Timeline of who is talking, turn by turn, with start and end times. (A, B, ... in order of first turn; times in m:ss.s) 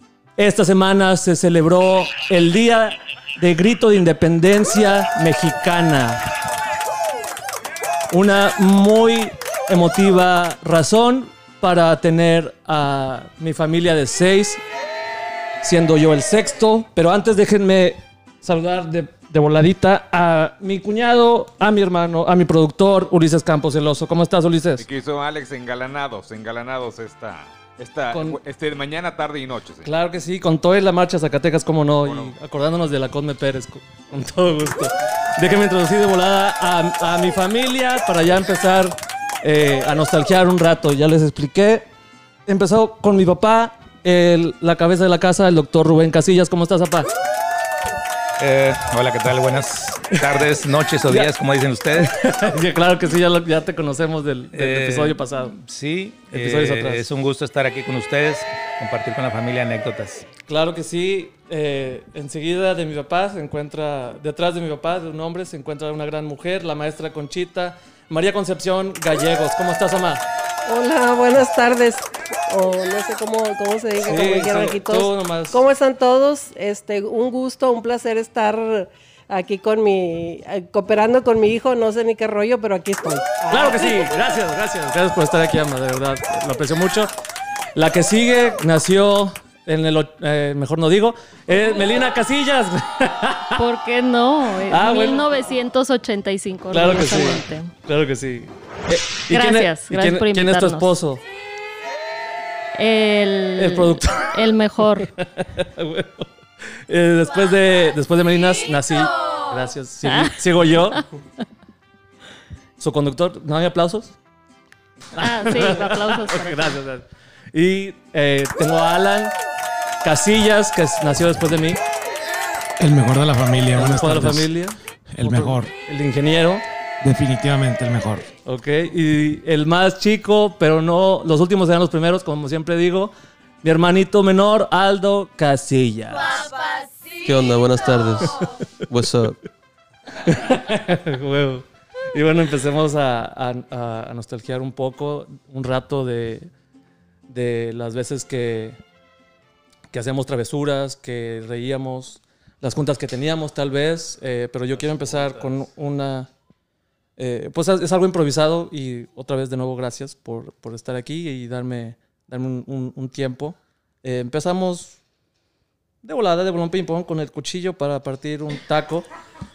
0:00.4-0:06.2 A
0:08.1-0:14.6 A
0:15.6-0:24.8 A
0:24.8-0:29.9 B
0:28.1-0:28.4 A
0:29.8-0:41.9 A
0:32.0-0:32.3 B
0:42.4-0:47.1 A
0:48.4-0:52.1 C
0:50.1-0:50.4 A
0:51.0-0:51.3 A
0:52.0-0:55.5 A
0:54.5-1:00.2 C
0:56.3-0:57.0 A
1:00.5-1:10.2 A
1:10.6-1:24.0 D
1:14.0-1:15.6 A
1:23.5-1:27.1 A
1:27.7-1:33.6 A
1:33.6-1:37.7 E
1:34.7-1:35.2 A
1:36.7-1:41.2 A
1:39.3-1:40.9 E
1:42.8-1:45.1 E
1:43.6-1:44.3 A
1:45.2-1:46.3 A
1:46.9-1:51.0 A
1:50.0-1:50.4 E
1:52.8-1:54.1 A
1:55.2-1:56.8 E
1:55.2-1:59.3 A
2:00.0-2:01.8 A
2:02.8-2:04.5 F
2:03.7-2:06.6 A
2:05.1-2:05.7 F
2:07.0-2:08.3 F
2:08.4-2:16.4 A
2:17.2-2:19.4 G
2:20.2-2:26.5 A
2:27.3-2:28.8 A
2:29.9-2:36.3 A
2:34.7-2:35.6 G
2:37.2-2:45.0 A
2:46.0-2:49.1 A